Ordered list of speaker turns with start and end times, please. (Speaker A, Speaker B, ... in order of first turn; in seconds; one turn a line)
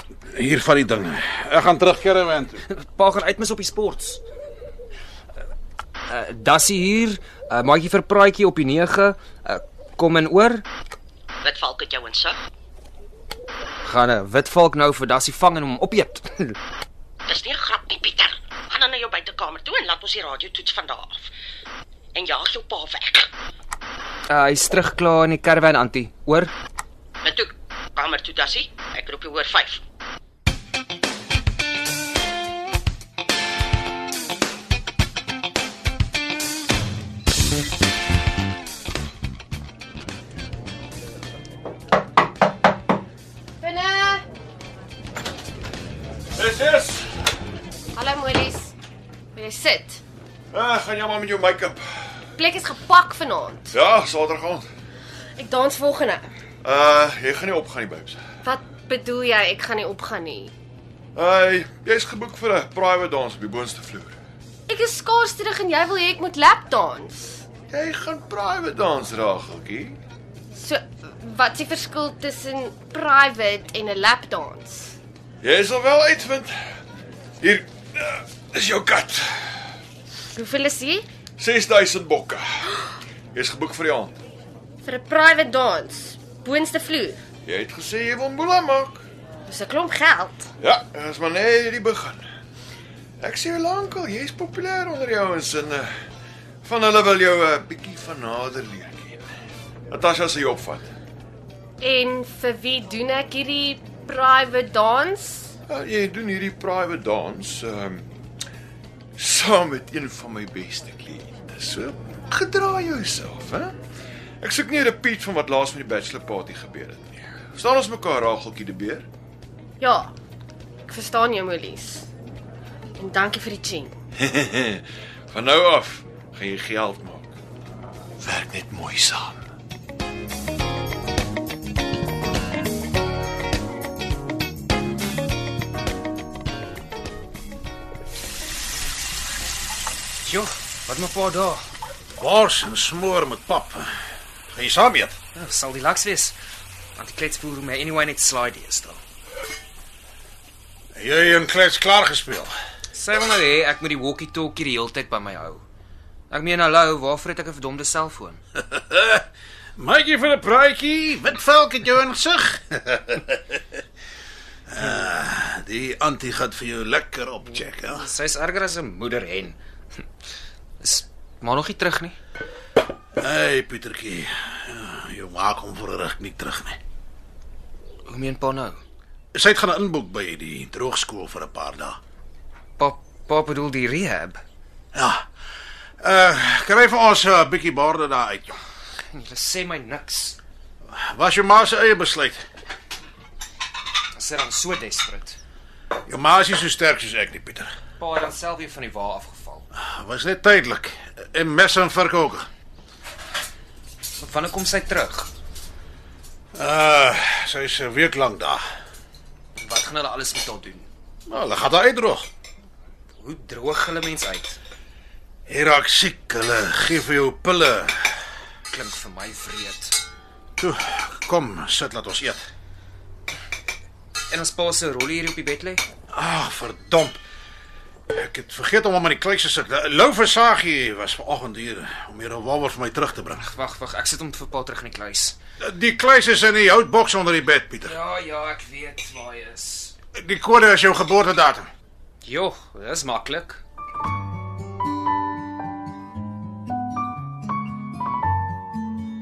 Speaker A: 0.3-2.6
Speaker B: 2.7-4.2
Speaker B: 6.1-10.6
Speaker C: 11.4-12.4
Speaker B: 13.8-16.6
Speaker C: 17.3-21.3
Speaker C: 22.1-23.3
Speaker B: 24.3-26.5
Speaker C: 27.2-29.8
Speaker D: 43.6-44.2
Speaker E: 46.4-47.1
Speaker D: 47.9-48.7
Speaker D: 49.3-50.0
Speaker E: 50.5-51.8
Speaker D: 52.4-53.7
Speaker E: 53.7-54.6
Speaker D: 55.4-56.2
Speaker E: 56.6-58.2
Speaker D: 58.4-60.5
Speaker E: 61.1-64.1
Speaker D: 64.7-67.4
Speaker E: 67.7-70.0
Speaker D: 70.5-74.9
Speaker E: 75.4-76.5
Speaker E: 77.4-79.5
Speaker D: 80.3-81.0
Speaker E: 81.4-82.8
Speaker E: 83.3-84.2
Speaker D: 84.8-87.2
Speaker E: 87.4-89.0
Speaker D: 89.5-90.5
Speaker E: 90.6-92.2
Speaker E: 93.2-95.9
Speaker E: 96.6-99.3
Speaker E: 99.9-100.9
Speaker D: 101.8-105.5
Speaker E: 105.7-108.0
Speaker E: 109.2-113.7
Speaker E: 114.4-119.0
Speaker D: 119.8-120.1
Speaker D: 120.9-122.1
Speaker D: 123.0-123.9
Speaker E: 124.2-127.3
Speaker E: 128.2-129.4
Speaker B: 140.2-141.6
Speaker A: 142.1-143.9
Speaker A: 144.5-145.2
Speaker B: 145.3-146.3
Speaker B: 146.9-149.0
Speaker A: 150.9-152.5
Speaker B: 152.9-155.6
Speaker B: 156.3-158.4
Speaker A: 158.7-159.2
Speaker A: 159.8-163.6
Speaker A: 164.7-168.1
Speaker B: 167.9-169.6
Speaker B: 170.8-172.2
Speaker A: 173.2-176.8
Speaker B: 178.1-178.8
Speaker A: 179.3-182.0
Speaker B: 182.8-184.4
Speaker A: 184.9-185.2
Speaker A: 186.0-188.6
Speaker B: 189.1-190.4
Speaker A: 190.9-192.4
Speaker B: 194.1-195.4
Speaker A: 196.1-197.7
Speaker B: 198.0-199.6
Speaker A: 199.7-202.5
Speaker B: 204.2-205.3
Speaker A: 206.5-208.6
Speaker B: 209.6-210.8
Speaker A: 211.3-212.2
Speaker B: 213.2-214.6
Speaker A: 215.5-218.2
Speaker B: 218.7-220.0
Speaker A: 220.6-222.5
Speaker B: 224.3-225.8
Speaker A: 226.1-227.2
Speaker A: 228.1-233.4
Speaker B: 233.4-235.4
Speaker A: 235.6-238.0
Speaker B: 237.8-239.9
Speaker A: 240.2-241.7
Speaker B: 242.2-243.6